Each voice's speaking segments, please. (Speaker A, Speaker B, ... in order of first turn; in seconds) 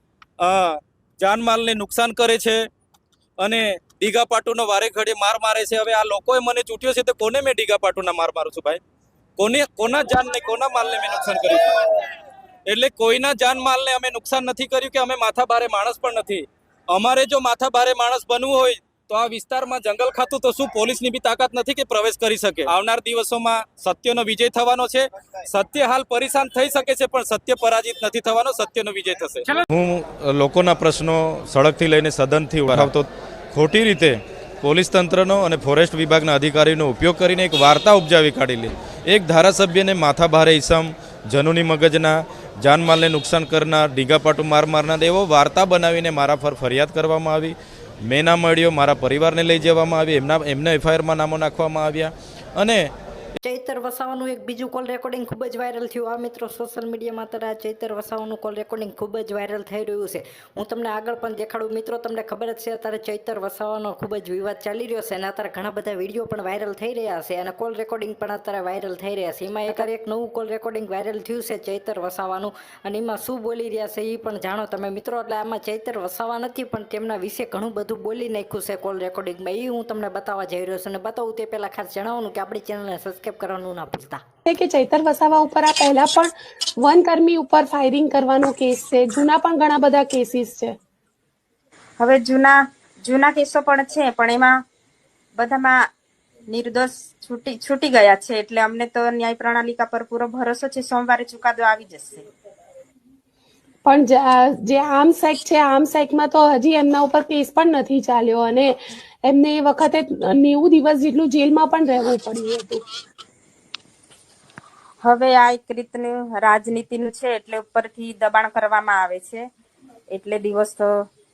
Speaker A: 0.4-2.6, 3.4-8.8, 9.4-11.7, 12.7-29.5
Speaker B: 29.7-52.9
Speaker C: 53.4-84.2
Speaker D: 84.5-90.7, 103.8-108.7, 109.2-112.8
Speaker E: 92.0-94.6, 95.4-95.8, 96.5-102.3, 115.0-119.5, 120.1-121.0